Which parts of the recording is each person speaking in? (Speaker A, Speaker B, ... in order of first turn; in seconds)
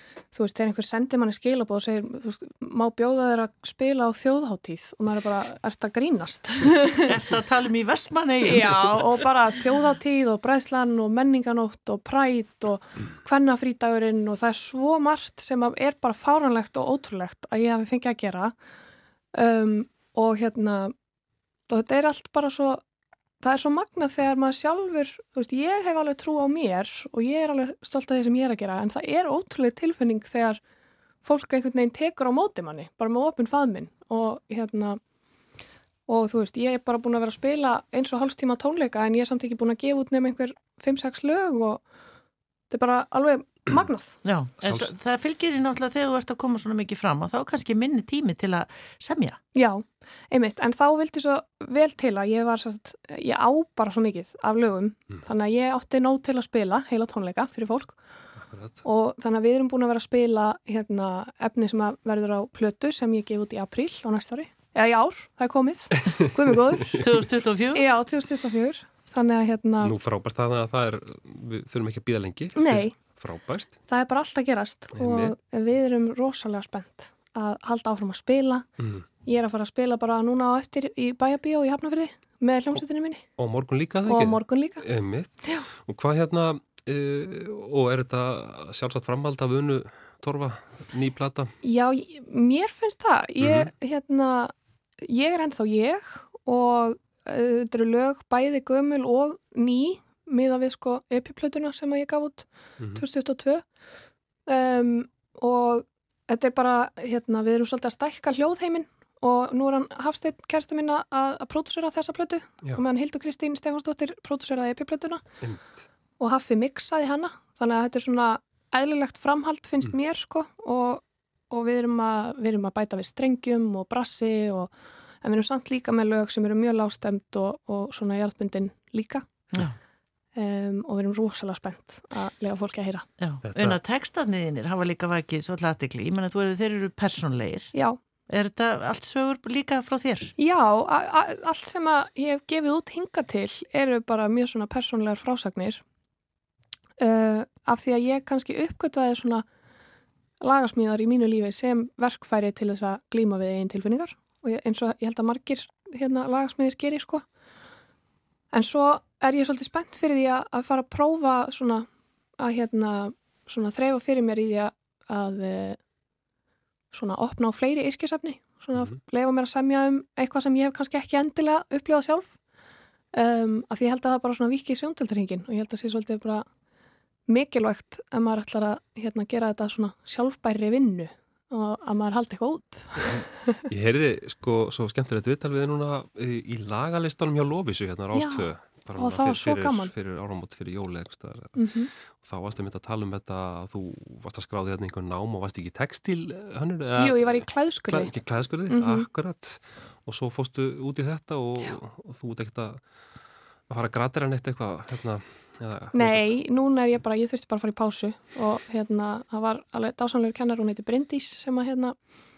Speaker A: 0.3-7.2, 8.4-18.6, 19.3-20.9, 21.7-22.8, 23.4-30.6, 31.2-35.0, 36.1-41.8, 42.7-44.2, 49.5-58.0, 58.8-67.0, 67.7-69.9, 72.5-73.0, 73.9-78.7, 79.2-83.3, 84.1-84.8, 91.6-103.7, 104.5-115.2, 116.2-129.3, 130.3-133.1, 137.7-138.0, 140.4-145.8, 147.0-149.5, 150.4-157.2, 158.5-161.9, 162.4-165.8, 166.9-172.4, 173.1-176.5, 177.3-183.6, 188.1-189.9, 191.6-191.9, 197.0-199.1, 205.9-212.0
Speaker B: 7.1-9.1, 44.2-49.4, 67.0-67.9, 133.2-137.8, 138.3-140.3
Speaker C: 44.6-44.9, 58.4-58.9, 69.8-73.8, 75.0-75.3, 78.8-79.1, 83.4-91.5, 93.4-93.7, 102.8-103.0, 115.4-115.9, 133.4-133.8, 183.0-206.3